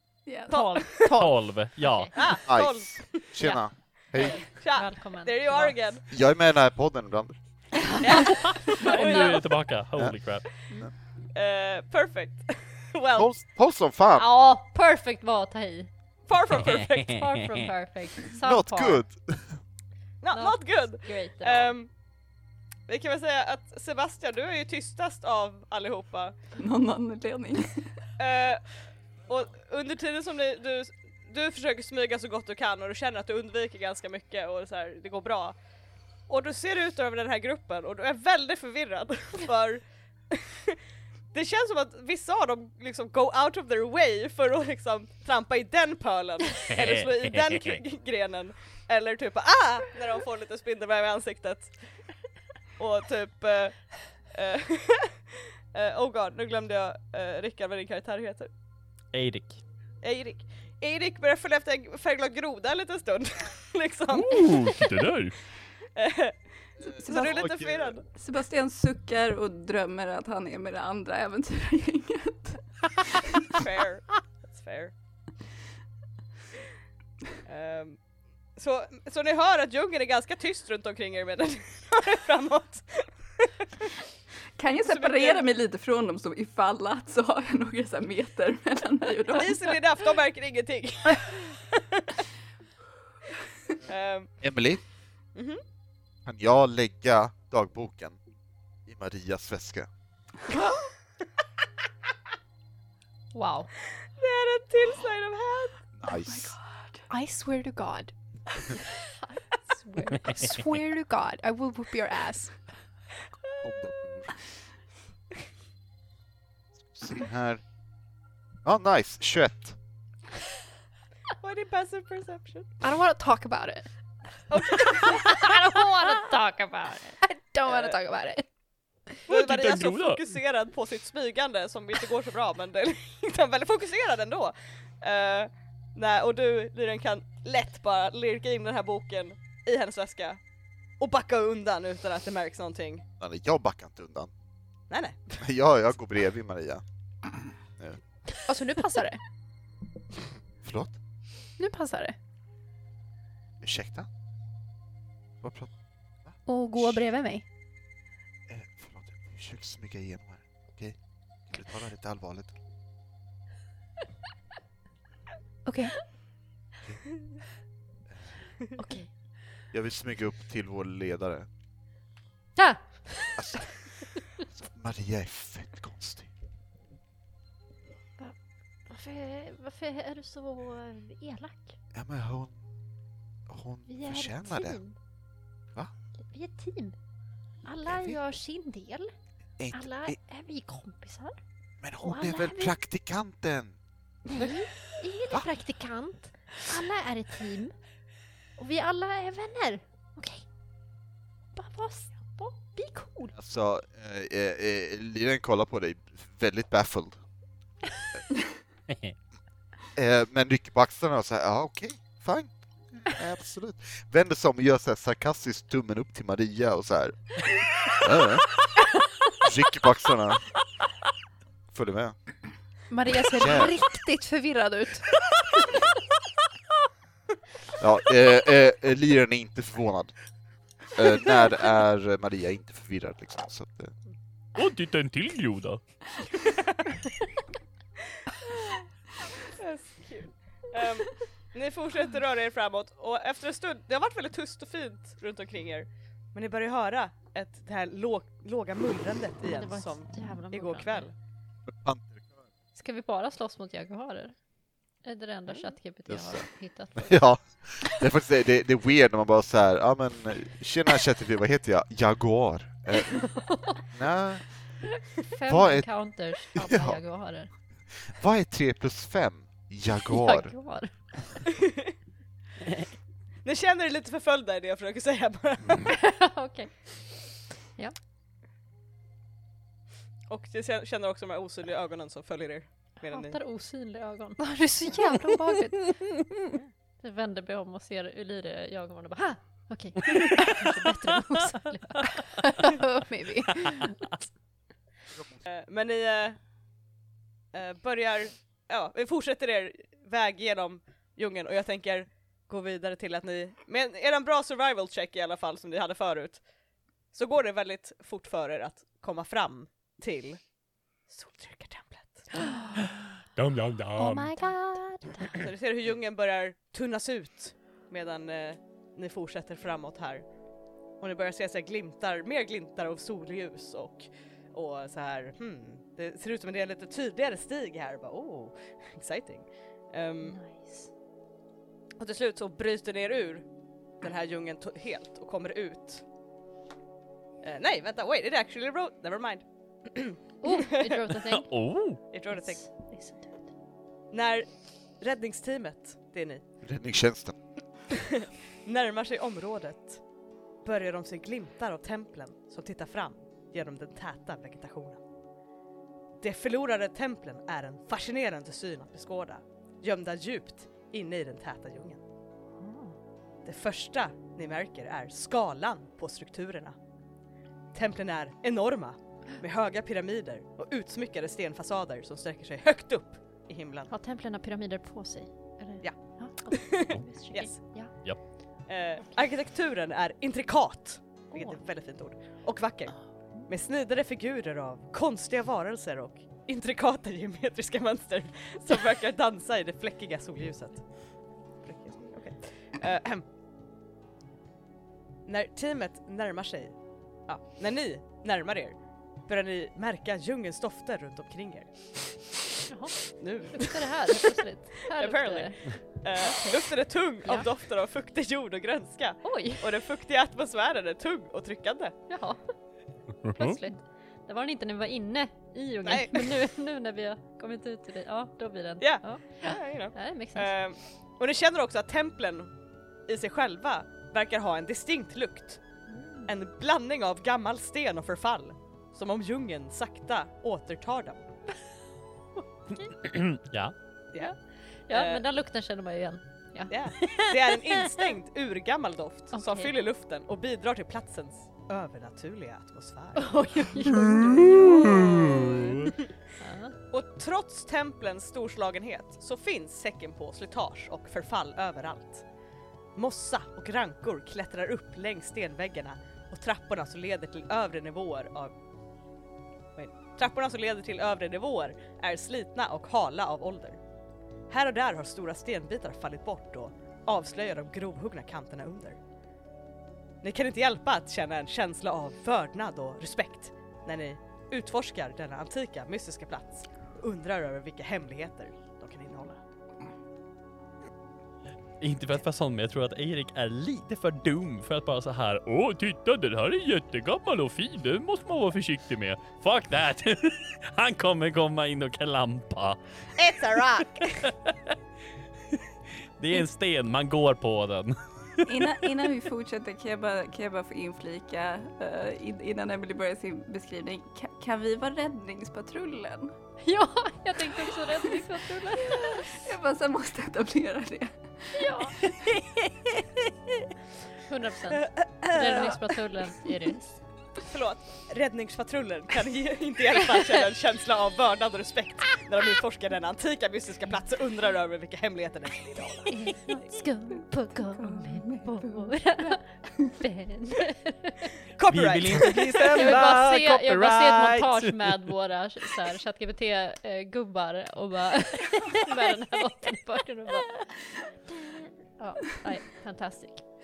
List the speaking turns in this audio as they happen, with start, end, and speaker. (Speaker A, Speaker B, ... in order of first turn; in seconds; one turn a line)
Speaker A: 0.2-0.9
Speaker B: 0.5-1.2
Speaker C: 0.7-1.4
Speaker D: 1.1-2.1
Speaker E: 1.8-2.1
Speaker B: 2.1-3.2
Speaker F: 2.5-4.4
Speaker E: 4.2-5.8
Speaker B: 4.4-6.0
Speaker F: 6.1-7.3
Speaker B: 8.0-9.5
Speaker E: 8.1-9.4
Speaker D: 8.5-10.4
Speaker B: 11.3-13.3
Speaker F: 13.1-14.3
Speaker E: 14.2-15.9
Speaker B: 16.3-17.2
Speaker E: 17.0-19.0
Speaker F: 18.4-19.5
Speaker B: 20.2-21.9
Speaker E: 20.3-21.7
Speaker B: 22.9-26.3
Speaker A: 26.6-27.9
Speaker B: 28.2-28.6
Speaker B: 29.3-35.5
Speaker B: 36.3-40.8
Speaker B: 41.3-51.7
Speaker D: 46.7-47.8
Speaker B: 52.8-58.5
Speaker D: 59.1-59.6
Speaker B: 60.0-64.5
Speaker G: 64.1-65.4
Speaker B: 66.0-66.3
Speaker F: 66.8-68.0
Speaker B: 66.9-68.0
Speaker A: 67.0-67.5
Speaker A: 68.1-73.6
Speaker B: 73.5-74.9
Speaker B: 77.5-78.0
Speaker B: 78.5-83.9
Speaker A: 84.6-89.7
Speaker B: 84.8-85.5
Speaker B: 89.3-92.2
Speaker B: 93.9-94.3
Speaker F: 94.4-94.8
Speaker B: 95.3-95.6
Speaker F: 96.2-98.2
Speaker F: 98.9-99.9
Speaker E: 103.3-103.7
Speaker B: 104.1-105.8
Speaker F: 106.0-106.5
Speaker A: 106.1-107.0
Speaker C: 107.1-108.1
Speaker E: 109.2-110.3
Speaker C: 110.1-112.5
Speaker F: 113.6-114.3
Speaker F: 116.8-117.6
Speaker F: 118.6-119.8
Speaker B: 121.4-122.7
Speaker C: 122.8-123.9
Speaker B: 124.5-125.3
Speaker E: 124.9-127.2
Speaker C: 127.2-128.4
Speaker B: 127.7-128.0
Speaker G: 129.3-130.2
Speaker B: 129.3-140.4
Speaker B: 141.0-143.0
Speaker F: 143.2-144.3
Speaker B: 144.9-145.4
Speaker F: 145.4-146.8
Speaker C: 148.5-149.2
Speaker F: 150.6-150.9
Speaker C: 151.6-152.2
Speaker F: 153.6-154.1
Speaker F: 155.4-155.7
Speaker F: 156.2-157.0
Speaker C: 156.4-157.4
Speaker F: 158.5-161.0
Speaker F: 161.5-162.5
Speaker C: 165.7-165.9
Speaker E: 168.8-169.1
Speaker F: 169.7-171.5
Speaker E: 172.6-173.4
Speaker F: 173.4-173.7
Speaker F: 174.5-176.3
Speaker E: 178.9-181.8
Speaker F: 181.9-182.6
Speaker F: 183.5-184.8
Speaker E: 183.9-184.9
Speaker E: 186.3-186.9
Speaker E: 187.6-189.1
Speaker F: 187.8-188.2
Speaker F: 189.6-190.2
Speaker E: 189.7-191.4
Speaker F: 191.8-193.7
Speaker E: 192.0-192.8
Speaker E: 194.3-197.7
Speaker E: 198.6-200.4
Speaker E: 201.6-203.3
Speaker F: 203.3-207.2
Speaker F: 209.9-217.3
Speaker F: 217.9-218.6
Speaker F: 219.4-220.4
Speaker F: 221.7-222.1
Speaker C: 222.9-225.1
Speaker F: 223.3-223.7
Speaker F: 227.8-230.1
Speaker F: 230.9-233.9
Speaker G: 234.5-235.8
Speaker B: 236.4-237.0
Speaker B: 239.4-251.1
Speaker E: 249.4-251.1
Speaker F: 251.7-252.4
Speaker E: 252.7-254.3
Speaker E: 255.0-257.2
Speaker F: 256.1-263.3
Speaker E: 263.4-263.7
Speaker F: 263.9-264.4
Speaker E: 265.2-267.5
Speaker F: 265.4-265.9
Speaker F: 266.5-267.0
Speaker F: 268.1-270.5
Speaker E: 270.1-270.9
Speaker B: 271.6-271.9
Speaker B: 273.4-275.9
Speaker E: 275.9-276.9
Speaker B: 280.3-283.4
Speaker E: 283.0-284.4
Speaker C: 284.4-285.9
Speaker E: 287.0-292.1
Speaker C: 292.4-293.9
Speaker F: 295.1-295.4
Speaker B: 295.4-296.4
Speaker B: 297.5-306.4
Speaker B: 307.1-310.4
Speaker B: 311.1-312.3
Speaker G: 313.4-314.3
Speaker E: 314.2-315.3
Speaker B: 315.4-320.2
Speaker B: 321.0-330.4
Speaker E: 330.2-330.9
Speaker B: 332.0-333.4
Speaker B: 334.0-336.0
Speaker B: 337.4-340.9
Speaker E: 340.4-341.5
Speaker G: 341.3-342.0
Speaker B: 342.1-342.6
Speaker E: 342.3-343.5
Speaker B: 344.1-344.5
Speaker B: 345.0-346.4
Speaker F: 346.6-347.3
Speaker B: 347.9-350.0
Speaker B: 350.6-355.0
Speaker B: 356.2-362.0
Speaker E: 362.6-362.9
Speaker B: 363.4-366.8
Speaker B: 367.7-373.9
Speaker E: 373.9-377.9
Speaker B: 376.5-377.6
Speaker B: 378.7-390.9
Speaker E: 381.3-381.6
Speaker B: 391.6-393.2
Speaker B: 395.3-396.7
Speaker B: 397.3-401.7
Speaker E: 402.7-406.6
Speaker B: 403.2-404.3
Speaker B: 404.9-411.9
Speaker E: 409.2-409.6
Speaker E: 412.1-412.5
Speaker G: 413.2-413.6
Speaker E: 413.3-420.5
Speaker B: 415.8-416.4
Speaker B: 418.8-422.5
Speaker B: 423.1-425.6
Speaker E: 425.9-426.3
Speaker B: 426.3-431.2
Speaker D: 433.0-433.7
Speaker E: 434.9-438.1
Speaker B: 434.9-435.2
Speaker B: 436.7-443.3
Speaker E: 439.3-439.7
Speaker E: 443.1-446.8
Speaker B: 444.8-445.5
Speaker B: 446.9-452.2
Speaker B: 452.9-458.5
Speaker B: 459.8-463.8
Speaker B: 464.5-469.0
Speaker B: 470.2-479.4
Speaker D: 481.8-485.4
Speaker G: 485.3-489.3
Speaker D: 489.2-492.8
Speaker B: 493.2-494.3
Speaker D: 494.2-494.5
Speaker D: 496.2-498.7
Speaker A: 498.4-506.3
Speaker E: 506.6-509.2
Speaker A: 508.8-511.2
Speaker E: 511.5-512.0
Speaker A: 511.8-512.1
Speaker E: 514.2-517.0
Speaker B: 514.7-515.8
Speaker B: 517.5-526.5
Speaker E: 526.1-529.4
Speaker A: 527.7-529.9
Speaker E: 530.0-531.3
Speaker B: 531.5-533.1
Speaker D: 531.7-535.0
Speaker E: 532.7-543.5